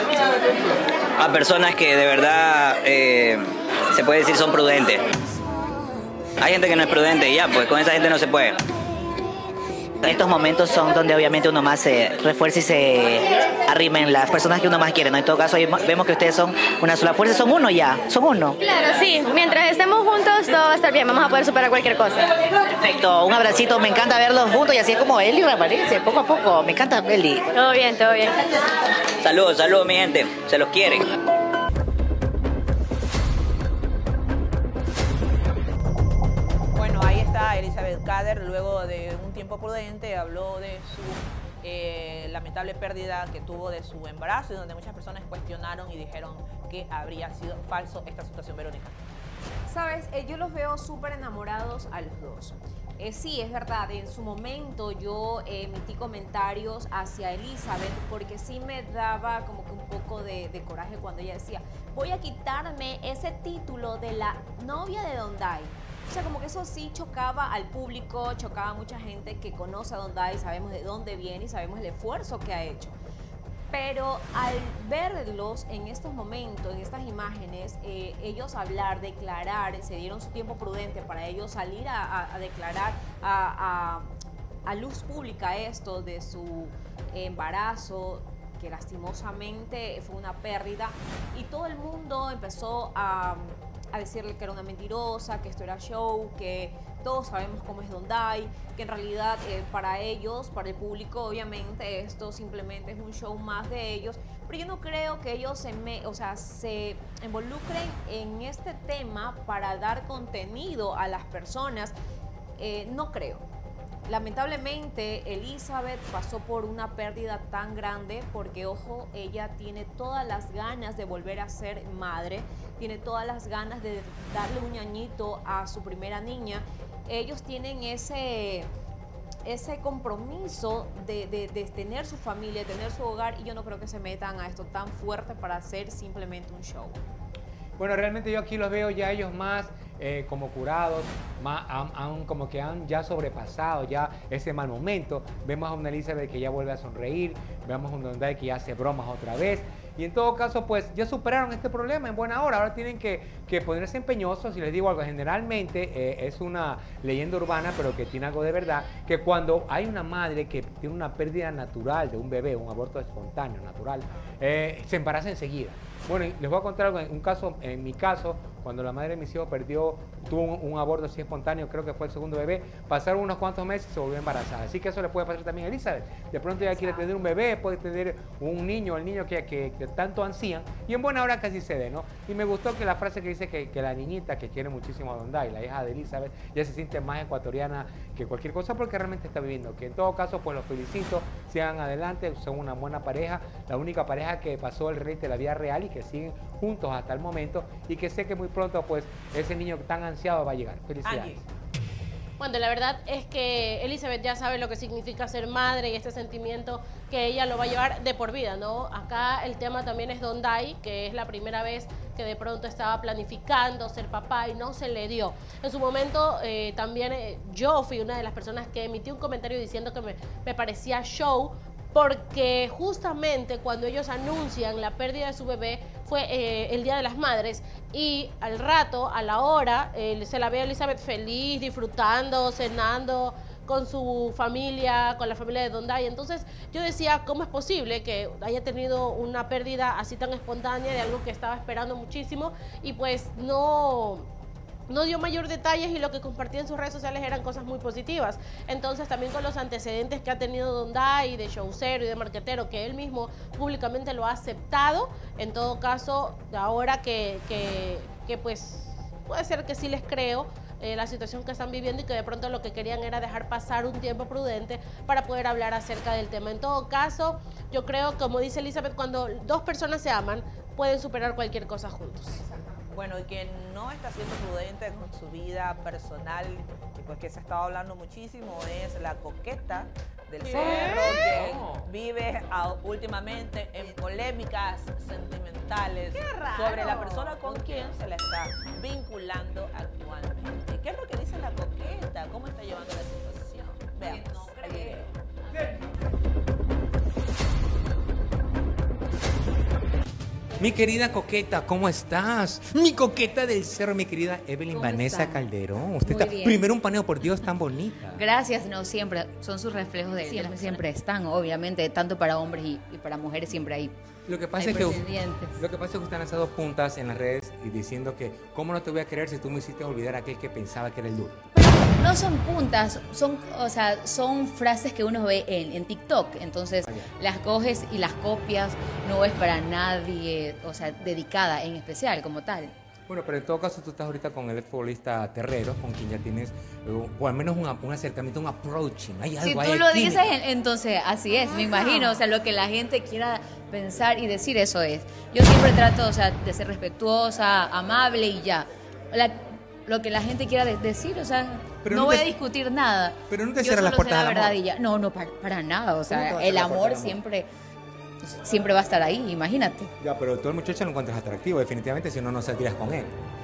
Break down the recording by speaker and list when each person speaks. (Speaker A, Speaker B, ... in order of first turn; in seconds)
Speaker A: 1.2-5.0, 6.4-8.6, 29.2-31.1
Speaker B: 10.0-18.6, 22.7-27.4
Speaker C: 18.6-22.3, 27.5-28.6
Speaker D: 36.8-49.0, 201.0-201.4, 272.9-295.1
Speaker E: 49.7-73.0, 73.7-84.1, 84.7-111.9, 112.6-113.4, 114.1-128.7, 129.4-137.0, 294.0-295.1
Speaker F: 137.8-201.4, 280.4-281.9, 300.6-308.2, 310.2-310.7, 314.3-321.4, 333.1-340.3, 351.8-352.3, 353.3-354.6, 356.1-357.2, 360.0-363.1
Speaker G: 202.4-244.3, 244.9-272.4, 280.5-281.2, 286.1-287.7, 341.8-342.1
Speaker H: 304.7-305.4, 306.0-306.6, 308.1-313.9, 314.6-315.6, 321.5-332.7, 339.4-357.5, 358.2-359.9